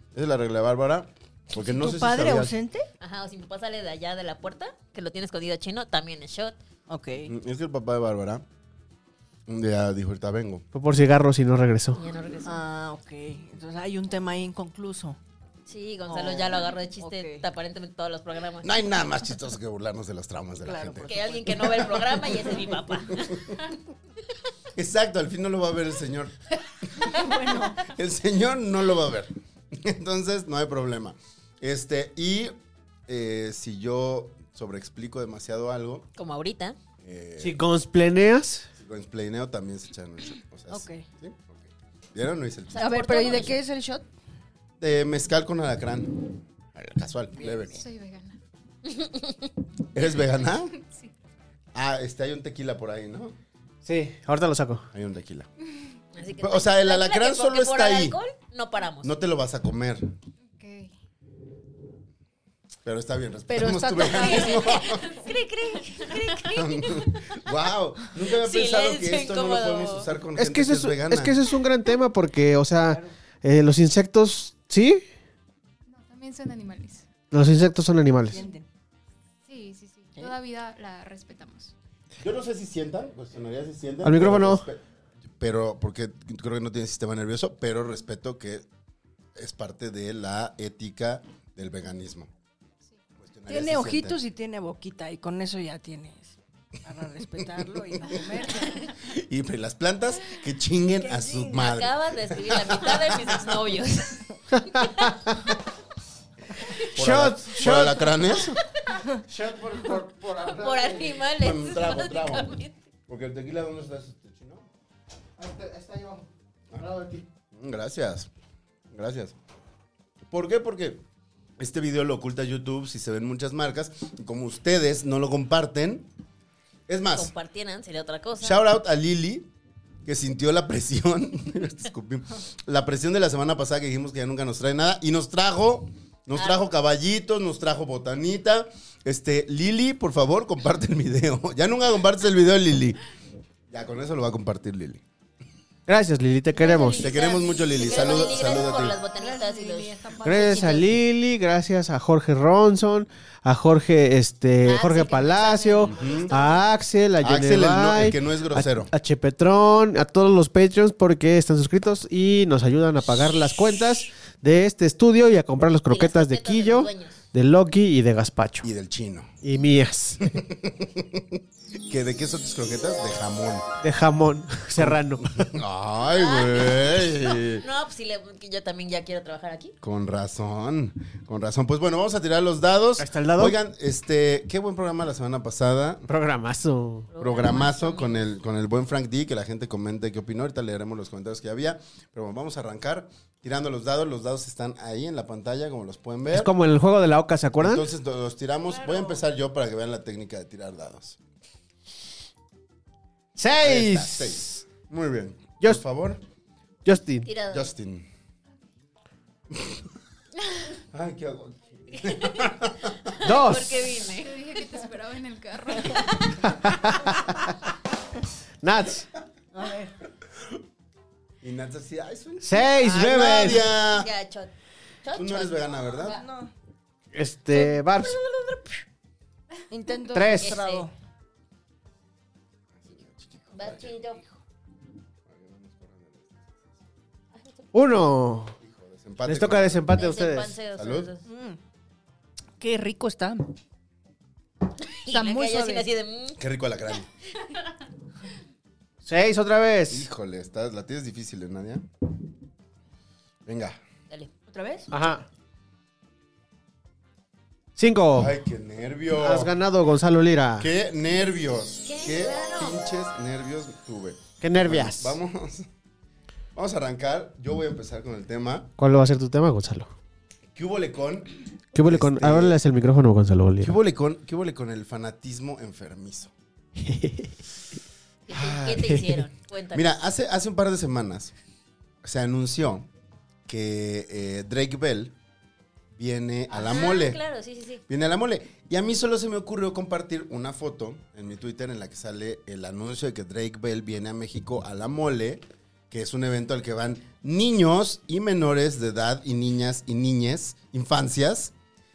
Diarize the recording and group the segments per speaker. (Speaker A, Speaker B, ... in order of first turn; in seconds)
Speaker A: 0.1-2.5, 7.2-8.4, 9.5-10.7, 18.6-23.7, 24.7-27.2, 27.8-32.5, 33.1-36.1, 37.0-37.6, 38.8-42.9, 44.8-47.8, 49.9-50.8, 51.7-53.4, 54.9-55.5, 56.4-58.2, 59.0-60.0, 62.8-65.0, 66.5-71.4, 82.2-84.8, 85.4-88.6, 89.3-92.3, 93.2-94.2, 97.5-98.1, 99.0-103.3, 106.9-108.6, 111.3-112.5, 113.1-114.7, 117.5-118.3, 118.9-119.3, 120.3-121.0, 121.6-126.1, 126.9-127.3, 128.4-129.5, 130.1-143.0, 143.7-145.0, 147.0-149.0, 155.8-156.3, 157.2-158.9, 168.6-169.3, 170.2-173.7, 174.8-177.6, 179.8-186.1, 187.2-196.5, 197.6-201.2, 203.6-206.2, 207.5-208.1, 209.5-209.8, 210.9-213.1, 221.4-224.1, 225.1-226.2, 232.7-234.3, 235.3-236.5, 238.6-241.1, 246.4-247.1, 249.9-251.8, 253.4-253.8, 258.1-259.5, 260.6-265.7, 266.5-268.7, 270.5-272.6, 273.6-276.3, 278.3-279.1, 279.7-281.3, 282.0-282.9, 283.5-285.1, 285.9-287.2, 287.9-301.5
Speaker B: 1.6-2.9, 6.9-7.3, 12.4-15.2, 16.1-17.4, 20.6-22.3, 27.0-27.8, 40.7-41.0, 42.8-44.1, 63.5-64.7, 72.8-73.1, 78.3-78.7, 93.5-98.9, 101.0-101.6, 149.2-150.9, 154.6-156.6, 219.5-219.9, 226.0-226.5, 227.5-228.8, 229.7-230.9, 241.2-241.6, 242.6-243.5, 245.1-245.9, 254.5-254.9
Speaker C: 3.0-6.6, 11.9-12.6, 15.7-18.7, 21.1-23.4, 36.1-36.8, 42.7-43.6, 48.9-49.5, 56.1-59.1, 64.1-67.0, 68.3-70.1, 101.5-105.2, 108.6-109.0, 110.4-112.8, 127.1-128.6, 136.3-136.6, 146.6-150.9, 165.9-167.2, 176.1-179.7, 187.1-188.2, 198.8-199.2, 207.2-207.7, 211.9-214.4, 215.9-216.4, 223.9-224.5, 225.0-225.8, 230.4-230.9, 233.5-234.2, 237.3-238.0, 239.9-241.2, 245.0-246.4, 261.8-262.8, 278.3-279.9, 286.5-287.8
Speaker D: 10.7-12.0, 37.4-38.7, 53.8-54.8, 70.3-75.0, 77.3-78.4, 84.0-84.6, 104.6-104.9, 106.8-108.2, 109.2-111.1, 115.4-117.2, 145.9-147.1, 150.2-168.7, 169.4-170.3, 173.8-175.5, 183.0-183.5, 186.1-187.1, 196.3-197.8, 203.4-204.6, 206.8-207.3, 213.2-213.8, 216.7-217.3, 218.6-219.1, 222.4-223.7, 227.1-228.2, 230.1-230.5, 237.7-238.6, 239.2-240.6, 249.0-250.1, 254.9-255.2, 257.8-258.4, 259.1-260.7, 264.4-265.1, 268.8-269.9, 271.7-273.7, 276.8-277.3
Speaker E: 47.7-48.4, 50.8-51.1, 60.5-60.9, 75.9-77.1, 79.4-81.7, 214.0-216.4